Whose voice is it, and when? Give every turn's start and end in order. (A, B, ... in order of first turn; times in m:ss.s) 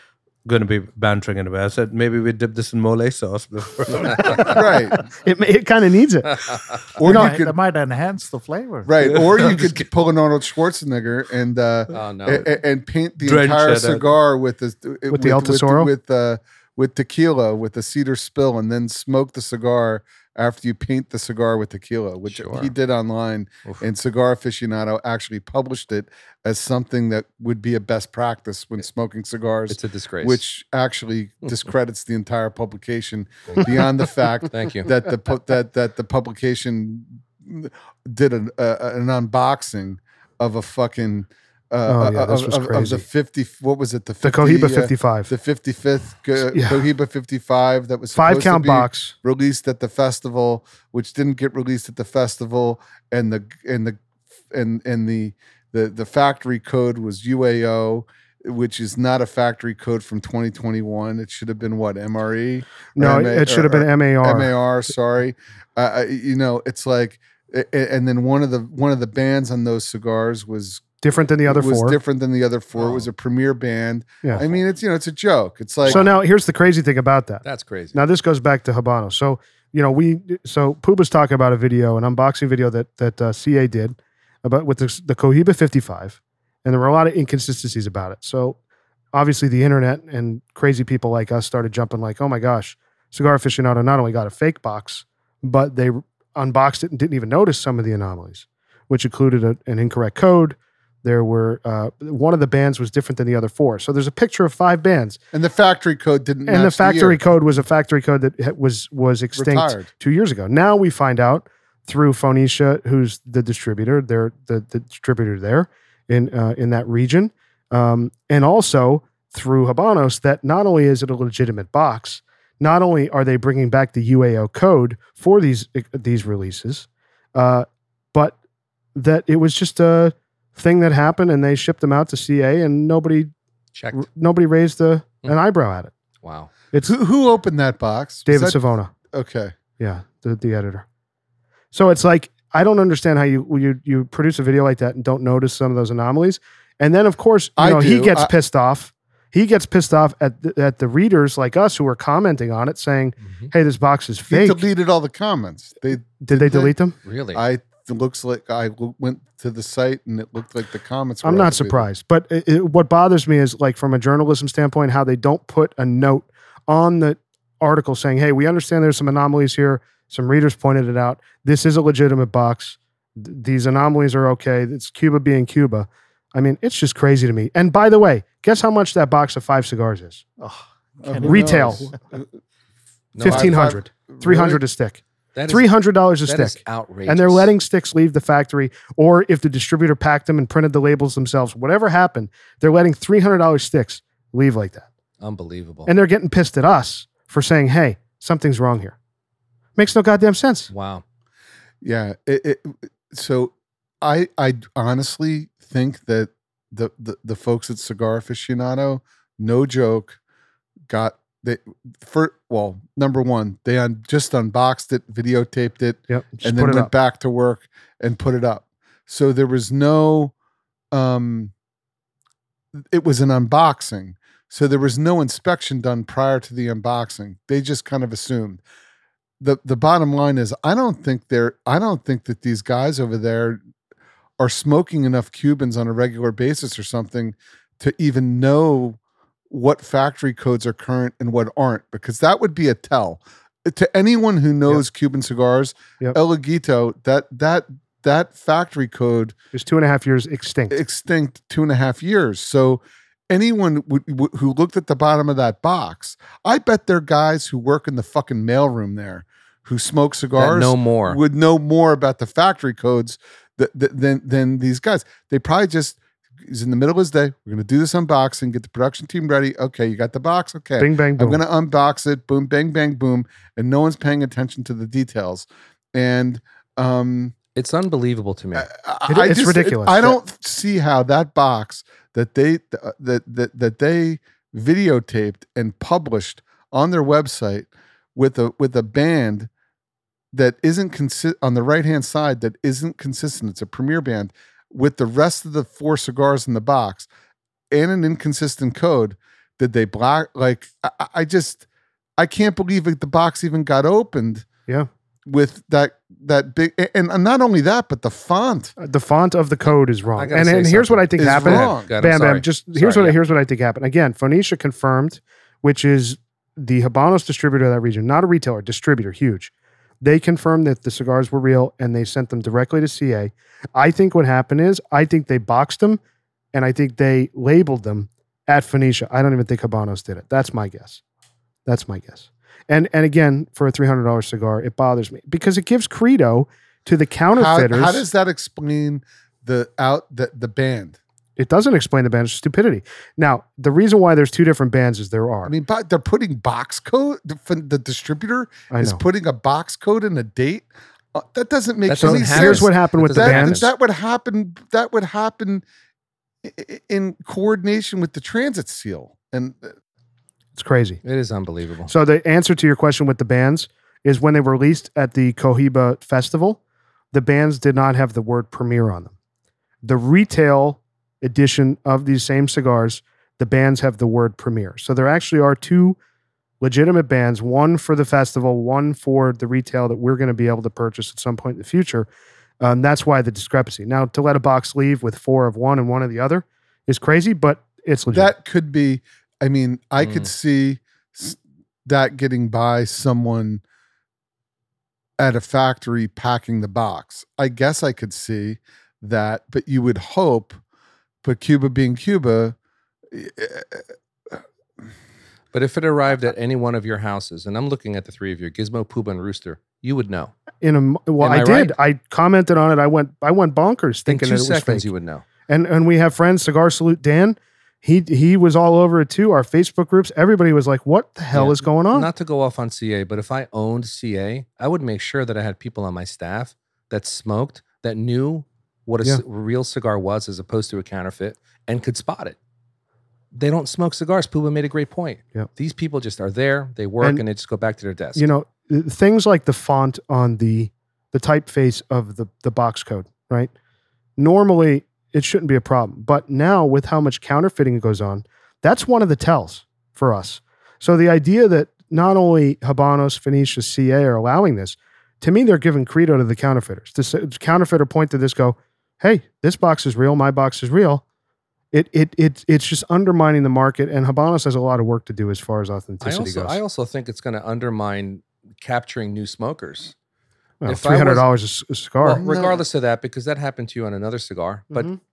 0:00.4-0:04.6 A
0:04.2-0:04.5 B
0:04.5-0:05.0 C
0:05.2-0:06.4 D
0:06.9-0:07.6 C
0:07.0-0:08.9 E
0:08.8-0:54.0 C
0:11.9-0:12.4 B
0:13.2-0:14.1 A
0:15.1-0:15.9 D
0:22.3-0:22.7 B
0:29.7-0:30.4 B
0:33.5-0:33.8 B
0:34.4-0:34.9 B
0:41.9-0:43.0 D
0:44.2-0:45.3 D
0:46.5-0:46.8 D
0:48.1-0:49.1 D
0:54.5-1:10.8 C
1:03.0-1:04.5 D
1:11.0-1:12.0 D
1:11.5-1:16.0 C
1:15.8-1:16.1 B
1:15.8-1:28.6 D
1:17.4-1:18.0 B
1:29.1-1:45.2 D
1:45.3-1:47.2 C
1:46.4-2:08.4 D
1:49.3-1:49.9 C
2:08.9-2:13.3 D
2:13.7-2:14.1 B
2:13.9-2:15.9 D
2:16.2-2:16.5 B
2:16.8-2:18.6 C
2:18.2-2:18.9 D
2:19.1-2:19.5 C
2:19.8-2:20.8 D
2:21.7-2:34.6 D
2:27.6-2:28.3 C
2:34.3-2:36.7 C
2:36.2-2:36.9 D
2:37.0-2:37.4 B
2:37.3-2:41.9 C
2:41.2-3:00.2 D
3:00.4-3:02.0 E
3:01.0-3:02.2 C
3:01.2-3:01.9 D
3:03.1-3:03.7 B
3:03.2-3:04.6 C
3:03.2-3:14.9 D
3:05.3-3:07.5 B
3:15.2-3:15.9 B
3:15.8-3:19.0 D
3:19.8-3:20.7 D
3:20.7-3:21.0 B
3:21.8-3:30.2 C
3:30.9-3:40.3 C
3:36.1-3:36.9 D
3:40.9-3:41.5 C
3:42.7-3:48.6 C
3:49.4-3:53.6 C
3:54.4-3:59.0 C
3:59.5-4:09.3 C
4:09.5-4:10.8 D
4:10.7-4:37.4 C
4:20.3-4:21.2 B
4:30.8-4:31.4 D
4:37.5-4:38.7 B
4:38.5-4:49.5 C
4:39.1-4:40.2 D
4:50.3-4:57.1 C
4:57.7-5:01.6 C
5:02.2-5:04.4 C
5:05.2-5:08.7 C
5:08.8-5:26.0 D
5:10.2-5:13.2 B
5:11.2-5:11.9 C
5:26.5-5:31.0 D
5:31.6-5:38.0 D
5:37.4-5:41.0 C
5:41.4-5:45.5 D
5:45.4-5:55.6 C
5:48.7-5:49.0 D
5:51.9-5:53.7 B
5:52.0-5:53.6 D
5:56.4-5:59.7 C
6:00.5-6:01.0 D
6:01.0-6:01.9 B
6:01.9-6:06.6 D
6:07.1-6:09.1 D
6:09.8-6:16.0 D
6:16.6-6:22.1 D
6:22.6-6:28.3 D
6:28.1-6:33.6 C
6:30.0-6:30.3 B
6:35.2-6:40.6 C
6:41.2-6:42.6 C
6:43.1-6:44.4 C
6:45.5-6:50.3 B
6:50.6-6:54.9 D
6:51.2-6:51.8 B
6:54.1-6:55.2 B
6:55.5-7:02.1 D
7:01.3-7:12.4 B
7:13.3-7:18.3 B
7:18.2-7:23.5 D
7:24.2-7:41.0 D
7:41.7-7:46.6 D
7:46.0-7:49.9 B
7:50.6-7:52.2 D
7:50.6-7:51.2 B
7:52.0-7:54.9 B
7:52.2-7:52.6 C